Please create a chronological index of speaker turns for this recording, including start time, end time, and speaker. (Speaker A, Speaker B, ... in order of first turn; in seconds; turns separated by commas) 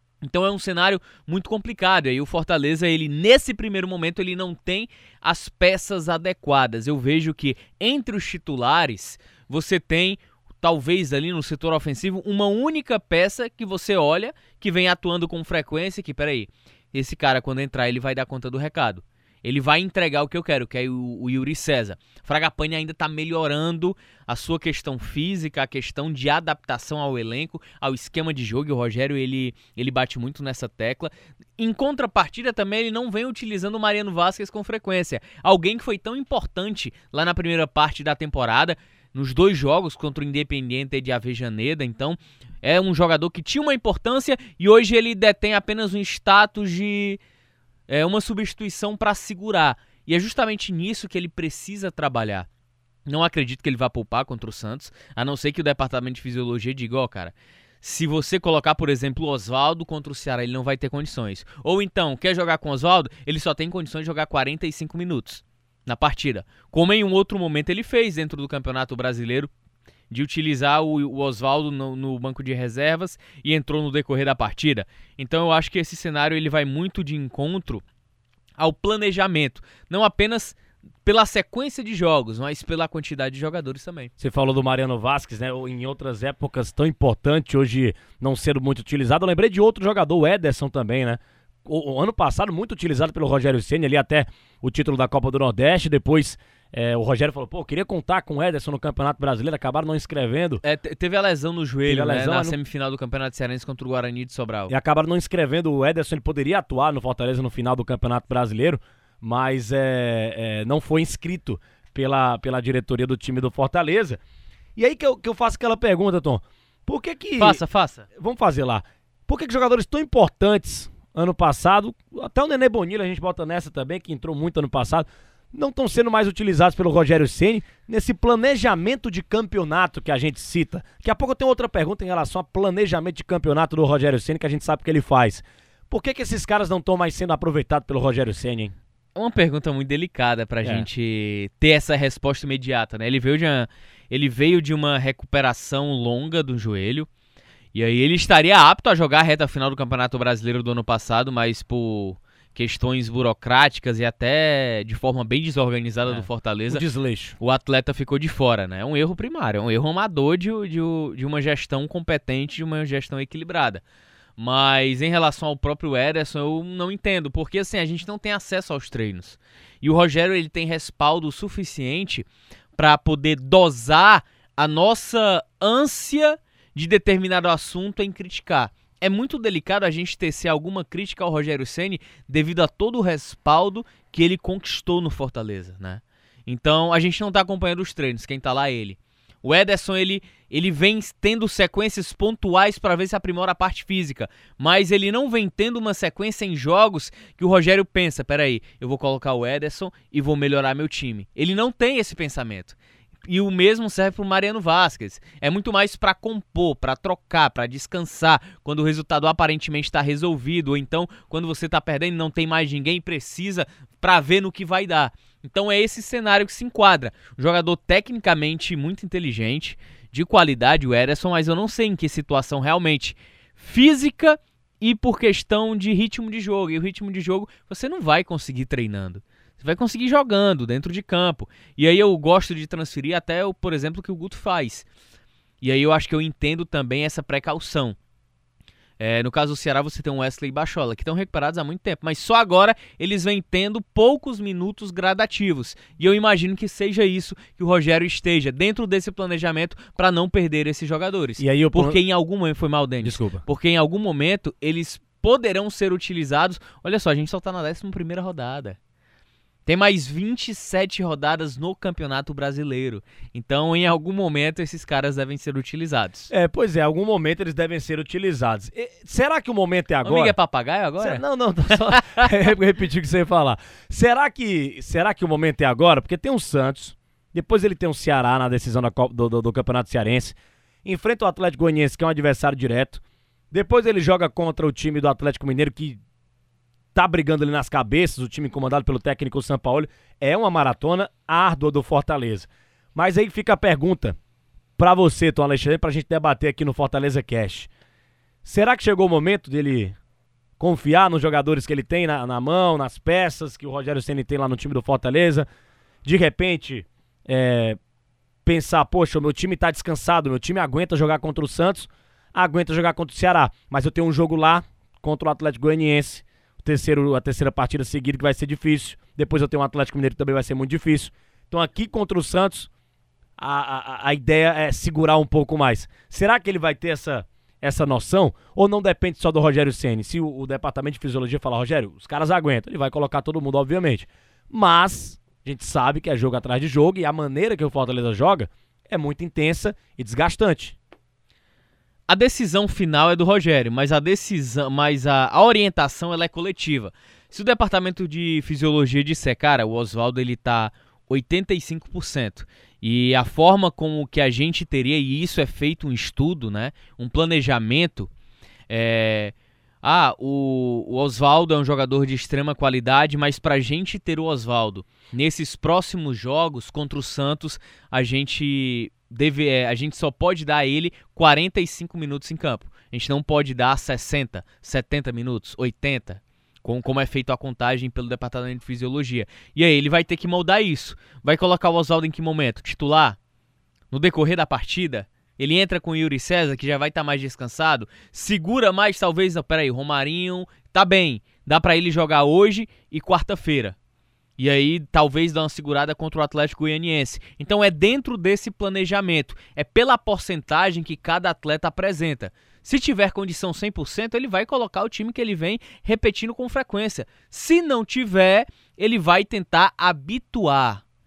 Speaker A: 0.2-47.2, Speaker A: 47.9-52.5, Speaker A: 53.1-69.5, Speaker A: 70.1-77.8, Speaker A: 78.6-84.1, Speaker B: 84.2-100.6, Speaker A: 100.6-104.7, Speaker B: 101.9-102.6, Speaker B: 104.7-114.2, Speaker B: 114.8-117.6, Speaker A: 117.4-118.0, Speaker B: 118.2-138.7, Speaker A: 139.2-147.1, Speaker A: 147.7-156.8, Speaker B: 156.1-157.4, Speaker A: 157.4-163.8, Speaker A: 164.4-234.8, Speaker A: 235.6-238.0, Speaker A: 239.0-258.8, Speaker B: 251.4-252.0, Speaker B: 253.0-253.4, Speaker A: 259.7-266.3, Speaker B: 266.3-270.4, Speaker A: 270.1-272.0, Speaker B: 271.0-286.0, Speaker B: 286.9-294.2, Speaker B: 294.8-297.7, Speaker B: 298.4-300.0, Speaker B: 300.6-305.5, Speaker B: 306.1-307.8, Speaker B: 308.5-322.7, Speaker B: 323.4-340.8, Speaker A: 342.1-358.1, Speaker A: 358.7-383.2, Speaker A: 383.9-393.8, Speaker A: 394.4-410.8